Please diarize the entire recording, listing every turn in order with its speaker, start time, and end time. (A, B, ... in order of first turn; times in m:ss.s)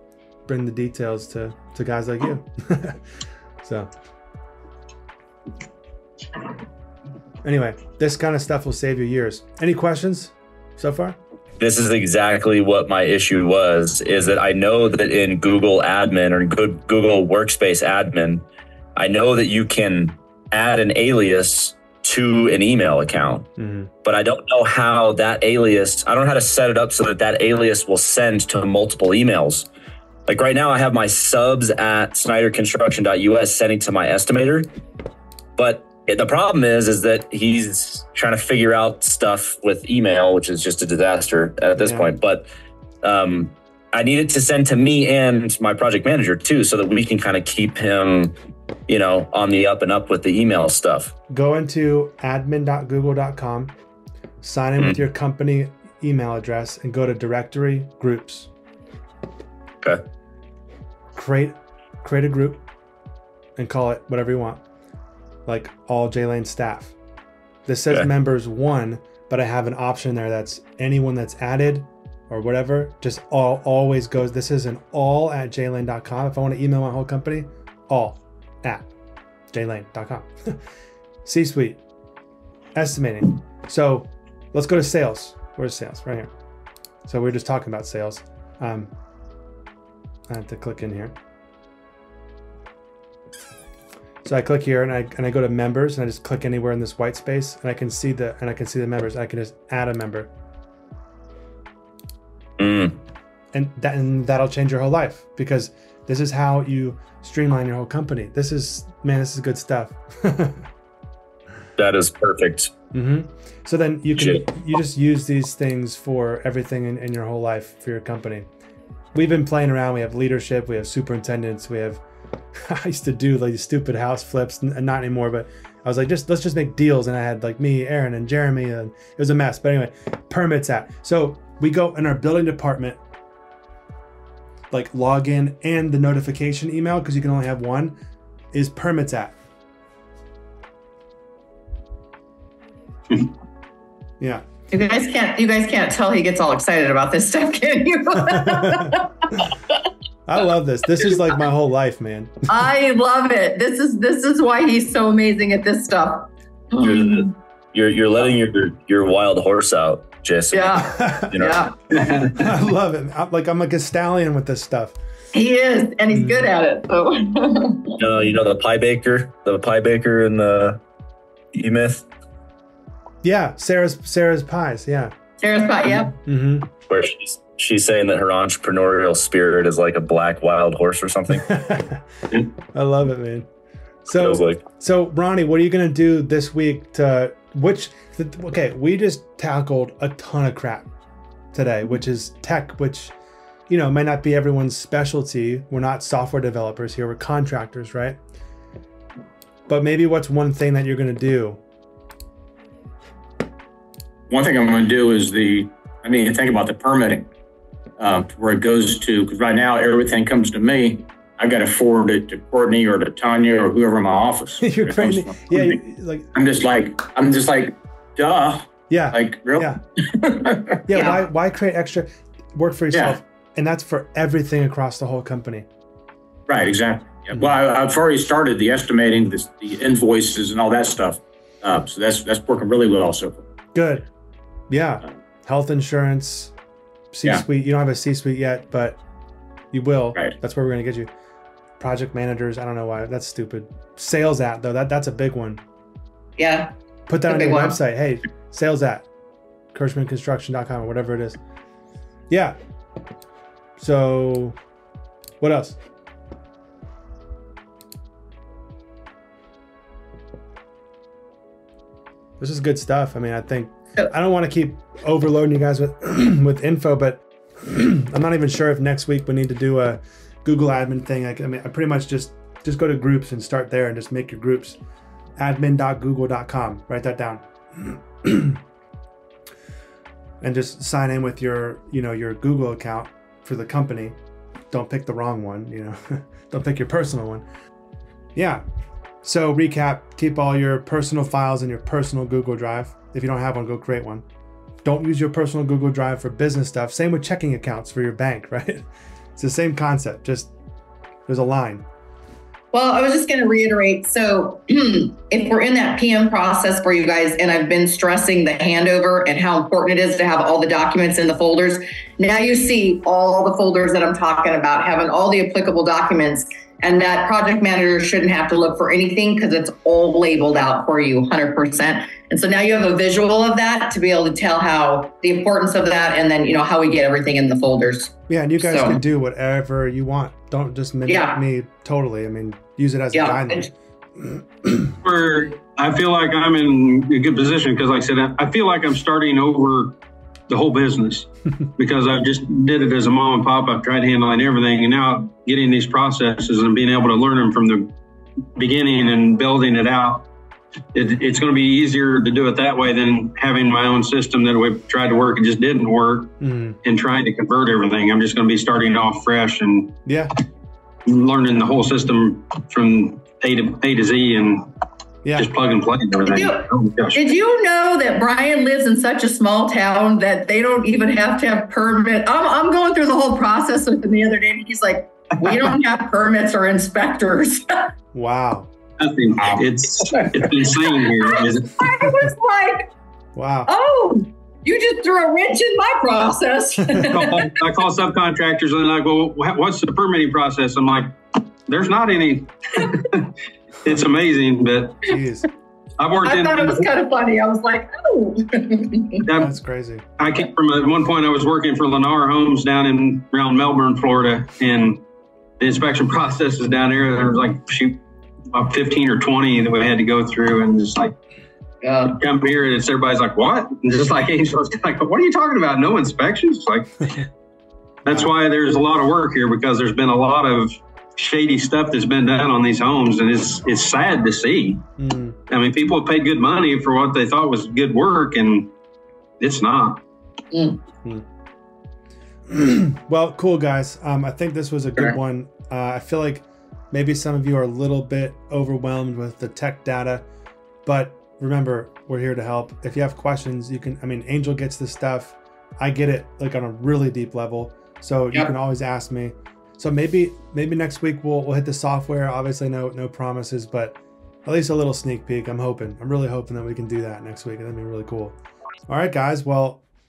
0:00.5-0:03.0 A
0:03.6-0:03.9 A
0:07.4-0:11.2 A
0:11.6-0:18.4 B
0:19.0-0:23.5 B
0:23.6-0:23.9 A
0:24.0-0:29.7 B
0:30.3-0:34.7 B
0:35.6-0:42.5 B
0:41.8-0:42.1 A
0:43.0-0:48.3 B
0:48.9-0:51.1 B
0:51.3-0:53.7 A
0:54.4-0:58.5 A
1:01.1-1:02.6 A
1:03.6-1:04.6 A
1:05.5-1:06.9 A
1:07.7-1:18.9 A
1:19.5-1:20.6 A
1:21.2-1:21.8 A
1:22.8-1:26.3 A
1:27.1-1:28.9 A
1:30.3-1:31.1 A
1:34.2-1:40.3 A
1:42.6-1:43.0 B
1:43.5-1:50.6 A
1:51.8-1:52.7 B
1:52.9-1:58.5 A
1:54.1-1:54.4 B
1:59.1-2:02.0 A
2:02.6-2:13.0 A
2:14.7-2:18.0 A
2:18.5-2:19.4 A
2:24.7-2:29.7 C
2:28.3-2:29.0 A
2:30.3-2:32.4 A
2:32.5-2:37.3 C
2:36.8-2:41.7 B
2:40.5-2:41.7 C
2:40.8-2:41.4 A
2:42.0-2:42.4 D
2:42.3-2:45.0 A
2:45.3-2:48.0 C
2:46.1-2:46.5 A
2:48.0-2:50.8 B
2:51.5-2:52.1 B
2:53.2-2:55.1 A
2:55.4-2:56.1 C
2:56.2-2:56.7 A
2:56.9-3:01.5 B
3:01.4-3:02.0 A
3:02.7-3:03.5 A
3:04.0-3:10.9 A
3:04.1-3:04.6 B
3:11.5-3:13.1 A
3:13.7-3:18.2 A
3:19.7-3:21.6 A
3:24.3-3:27.3 E
3:28.0-3:35.8 E
3:34.6-3:36.3 A
3:36.3-3:40.8 E
3:38.9-3:39.8 A
3:40.8-3:45.7 A
3:40.9-3:41.2 C
3:42.9-3:43.2 E
3:46.5-3:53.5 E
3:53.7-3:54.1 A
3:54.7-3:56.5 A
3:57.1-3:59.0 A
3:59.7-4:01.1 A
4:01.8-4:05.6 A
4:06.4-4:06.7 C
4:07.1-4:09.1 A
4:07.3-4:07.8 C
4:09.7-4:11.4 A
4:12.3-4:12.6 A
4:13.8-4:14.6 A
4:15.4-4:15.8 A
4:22.4-4:34.8 A
4:35.4-4:38.6 A
4:40.4-4:44.2 A
4:44.7-4:47.4 A
4:48.4-4:48.6 A
4:49.2-4:54.2 A
4:54.8-5:00.5 A
5:01.3-5:01.8 A
5:02.7-5:29.0 C
5:28.3-5:34.9 A
5:31.1-5:31.4 C
5:33.1-5:33.7 C
5:35.0-5:40.0 D
5:40.5-5:47.9 D
5:48.6-5:50.2 D
5:50.9-6:00.0 D
5:56.4-5:56.8 A
6:00.1-6:00.3 A
6:01.1-6:04.7 D
6:05.4-6:07.2 D
6:06.3-6:17.9 C
6:18.1-6:18.7 A
6:19.0-6:21.8 D
6:20.2-6:20.5 E
6:20.7-6:22.9 C
6:23.4-6:23.7 A
6:23.7-6:27.5 C
6:27.0-6:31.1 D
6:31.7-6:33.3 D
6:33.8-6:35.1 D
6:35.1-6:35.5 A
6:36.0-6:36.9 D
6:36.2-6:39.2 C
6:39.2-6:39.5 D
6:39.3-6:40.0 A
6:40.2-6:45.0 D
6:45.6-6:51.1 D
6:51.8-6:52.2 C
6:52.0-6:57.2 D
6:58.0-6:58.3 A
6:58.1-7:04.8 D
7:05.0-7:05.4 A
7:05.5-7:08.7 D
7:09.4-7:10.0 D
7:10.5-7:10.8 C
7:12.5-7:20.2 A
7:20.8-7:38.4 A
7:38.9-7:39.8 A